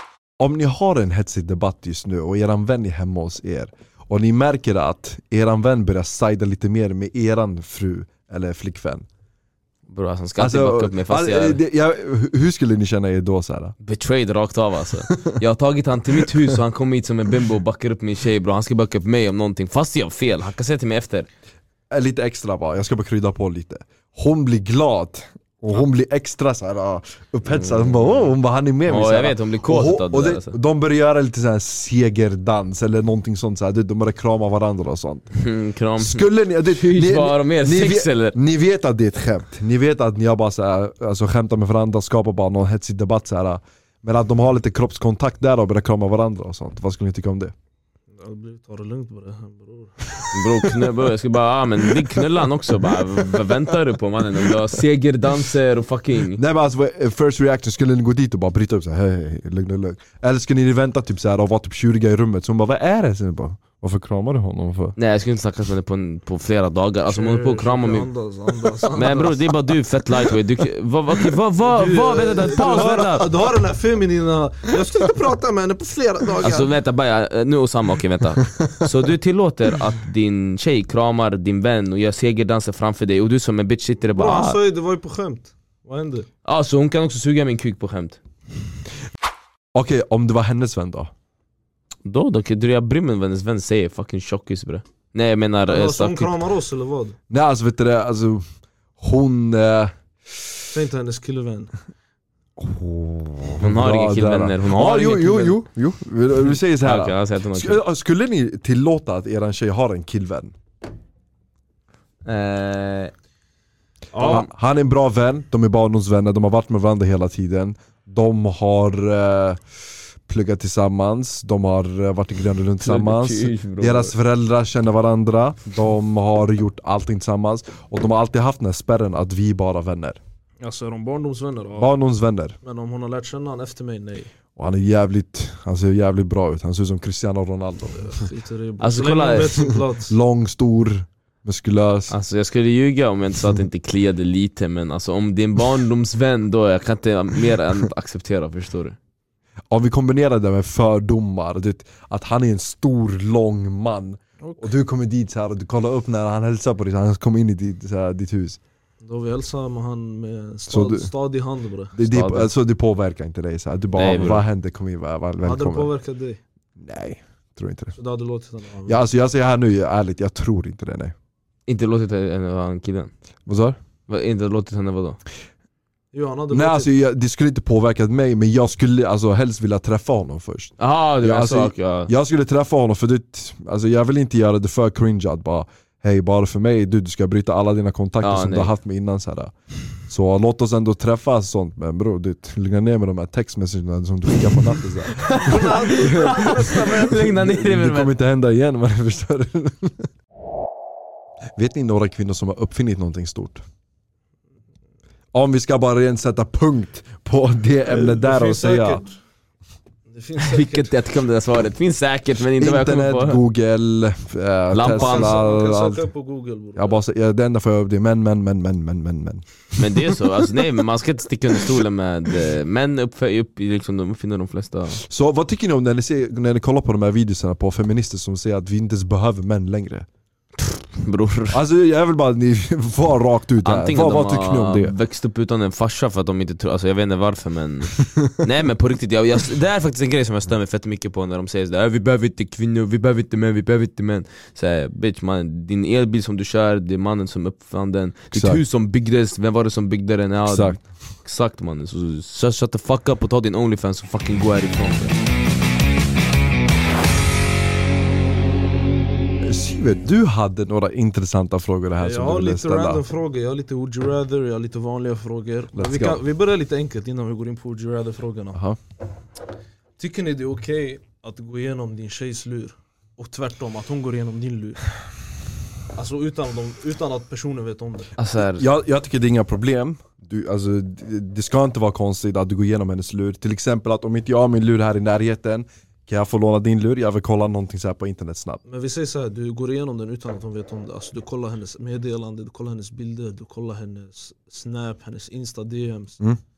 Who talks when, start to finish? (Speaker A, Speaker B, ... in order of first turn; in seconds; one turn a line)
Speaker A: 0.4-9.1
Speaker B: 9.9-11.6
Speaker A: 10.4-13.7
Speaker B: 13.8-21.3
Speaker A: 15.1-15.4
Speaker A: 21.9-35.3
Speaker B: 27.5-28.3
Speaker B: 28.9-30.6
Speaker B: 35.3-38.4
Speaker A: 36.0-47.5
Speaker C: 48.2-50.0
Speaker B: 50.3-56.4
Speaker A: 56.3-65.0
Speaker B: 65.0-68.1
Speaker C: 67.1-69.6
Speaker B: 68.9-73.3
Speaker C: 71.6-76.7
Speaker B: 76.4-84.6
Speaker C: 84.1-86.3
Speaker B: 86.5-88.2
Speaker A: 89.8-91.1
Speaker B: 92.1-96.4
Speaker C: 95.7-97.2
Speaker A: 97.3-98.4
Speaker A: 99.0-99.9
Speaker C: 100.7-101.7
Speaker A: 102.6-110.5
Speaker B: 103.6-105.6
Speaker B: 106.5-107.8
Speaker B: 112.2-113.1
Speaker C: 114.1-114.5
Speaker B: 114.2-114.5
Speaker A: 114.3-119.6
Speaker A: 120.3-130.2
Speaker B: 122.8-124.1
Speaker C: 130.6-131.9
Speaker A: 131.8-132.6
Speaker C: 132.6-134.3
Speaker A: 134.6-138.3
Speaker C: 138.0-140.1
Speaker B: 138.8-139.6
Speaker A: 140.1-142.1
Speaker B: 142.1-149.0
Speaker A: 149.7-158.6
Speaker C: 154.4-154.7
Speaker C: 159.0-161.9
Speaker A: 160.7-161.1
Speaker A: 161.9-165.9
Speaker B: 162.1-162.5
Speaker B: 164.0-164.4
Speaker C: 165.4-166.4
Speaker A: 166.8-168.0
Speaker C: 168.0-169.0
Speaker A: 168.9-171.1
Speaker B: 171.7-173.1
Speaker A: 173.5-173.8
Speaker B: 174.1-175.2
Speaker C: 176.1-176.9
Speaker A: 176.5-189.5
Speaker B: 180.8-182.1
Speaker B: 188.2-188.7
Speaker A: 190.1-200.1
Speaker B: 195.2-198.1
Speaker C: 195.3-197.3
Speaker A: 201.6-203.6
Speaker A: 205.3-209.0
Speaker C: 207.9-209.2
Speaker C: 210.1-210.9
Speaker B: 210.4-213.4
Speaker A: 212.6-216.1
Speaker B: 214.7-215.4
Speaker C: 214.9-217.0
Speaker A: 216.8-219.5
Speaker B: 219.8-225.0
Speaker A: 225.0-230.1
Speaker B: 230.6-231.6
Speaker A: 231.5-234.9
Speaker B: 233.7-255.2
Speaker A: 248.3-248.6
Speaker A: 250.5-250.8
Speaker A: 259.4-263.0
Speaker C: 262.0-268.6
Speaker A: 265.7-266.2
Speaker C: 270.0-274.8
Speaker C: 275.9-278.1
Speaker B: 278.2-278.6
Speaker A: 278.6-288.6
Speaker C: 288.7-296.2